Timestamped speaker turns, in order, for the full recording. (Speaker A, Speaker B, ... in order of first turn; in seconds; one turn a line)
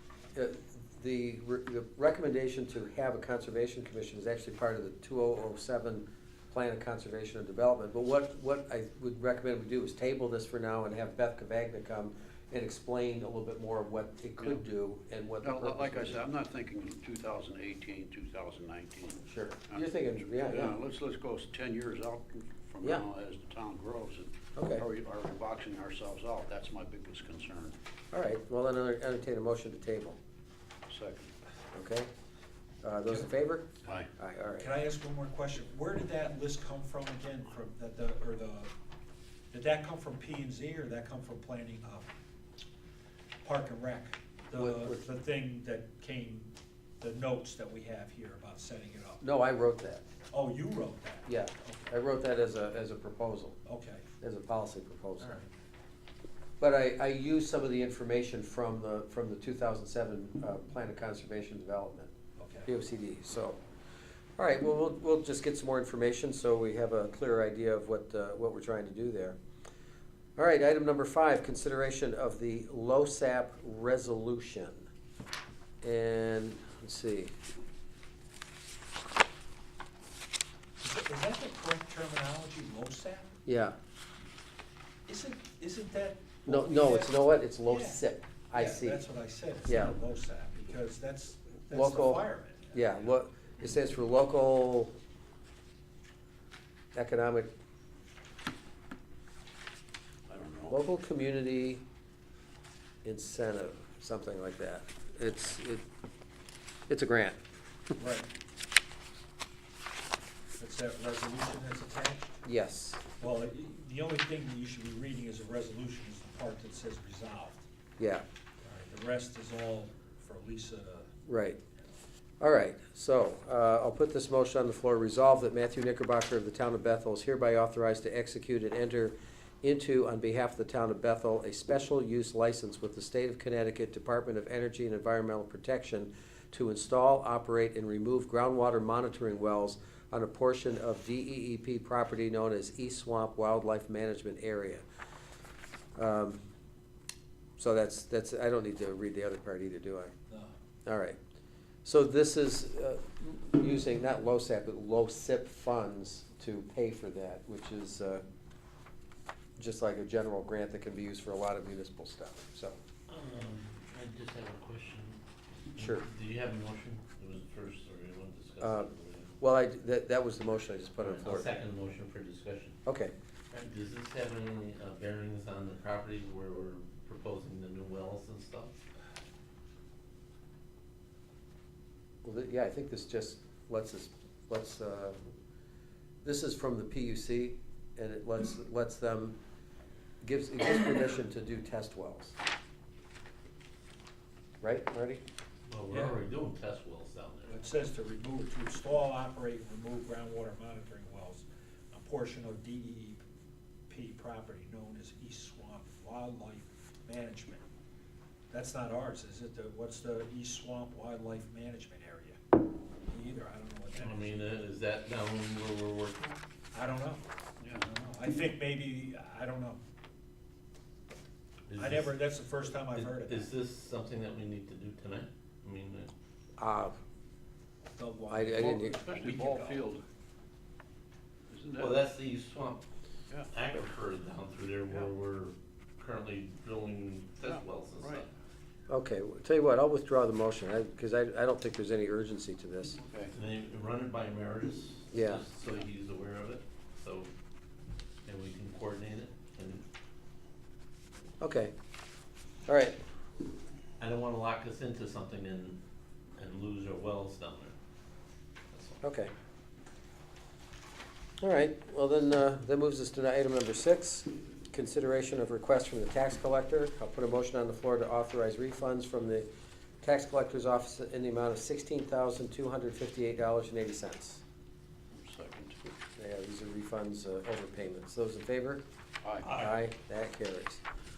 Speaker A: 0.3-16.2
Speaker B: 15.4-27.8
Speaker A: 19.3-20.8
Speaker A: 24.6-24.8
Speaker A: 28.1-30.2
Speaker B: 30.9-31.3
Speaker A: 31.7-32.1
Speaker A: 32.8-34.7
Speaker C: 34.6-38.7
Speaker C: 39.5-42.1
Speaker C: 43.4-49.2
Speaker A: 44.5-45.0
Speaker A: 49.2-50.0
Speaker C: 50.3-51.9
Speaker A: 51.2-53.6
Speaker C: 53.6-54.0
Speaker A: 54.2-55.3
Speaker A: 56.6-62.1
Speaker C: 62.4-62.7
Speaker A: 62.7-63.6
Speaker A: 64.4-69.4
Speaker A: 70.4-74.9
Speaker A: 75.8-77.3
Speaker C: 80.8-83.3
Speaker A: 83.5-83.8
Speaker C: 85.1-93.0
Speaker A: 86.5-89.0
Speaker A: 89.7-90.0
Speaker A: 91.7-94.9
Speaker A: 96.9-97.5
Speaker B: 100.3-100.8
Speaker A: 100.6-101.8
Speaker A: 103.0-105.8
Speaker A: 106.9-107.4
Speaker C: 108.0-108.3
Speaker C: 110.6-112.4
Speaker A: 112.4-113.0
Speaker C: 113.2-117.7
Speaker A: 118.0-118.2
Speaker C: 118.6-121.1
Speaker A: 121.2-121.6
Speaker A: 122.4-144.8
Speaker A: 145.9-146.4
Speaker A: 147.6-150.1
Speaker C: 150.3-150.5
Speaker A: 150.8-151.2
Speaker A: 151.8-158.2
Speaker A: 159.6-162.8
Speaker D: 163.1-165.2
Speaker D: 165.7-169.3
Speaker A: 165.8-166.1
Speaker A: 168.6-171.5
Speaker D: 171.0-172.8
Speaker A: 172.8-173.1
Speaker D: 173.5-178.7
Speaker A: 182.2-185.2
Speaker A: 186.2-189.4
Speaker A: 190.2-192.3
Speaker A: 194.6-195.2
Speaker D: 195.7-197.6
Speaker C: 195.9-196.2
Speaker C: 197.4-203.2
Speaker C: 203.9-207.6
Speaker C: 208.5-212.4
Speaker C: 213.1-214.3
Speaker D: 214.0-216.4
Speaker C: 216.7-219.8
Speaker B: 217.6-217.8
Speaker D: 221.7-222.1
Speaker C: 221.7-223.5
Speaker D: 222.9-226.1
Speaker A: 226.6-226.9
Speaker C: 228.0-229.8
Speaker A: 228.3-229.0
Speaker B: 228.5-230.0
Speaker B: 231.5-231.9
Speaker D: 231.8-232.8
Speaker D: 233.5-238.3
Speaker B: 237.4-238.2
Speaker A: 238.9-243.0
Speaker B: 243.0-243.3
Speaker D: 243.3-247.3
Speaker A: 245.1-245.4
Speaker D: 248.2-249.8
Speaker A: 251.4-251.7
Speaker A: 252.7-253.0
Speaker D: 254.0-255.8
Speaker D: 256.4-257.7
Speaker D: 258.7-259.0
Speaker A: 259.0-259.3
Speaker A: 261.4-269.5
Speaker A: 270.0-274.4
Speaker B: 275.1-275.8
Speaker A: 275.9-278.8
Speaker B: 279.2-279.5
Speaker A: 279.4-280.8
Speaker D: 279.4-279.7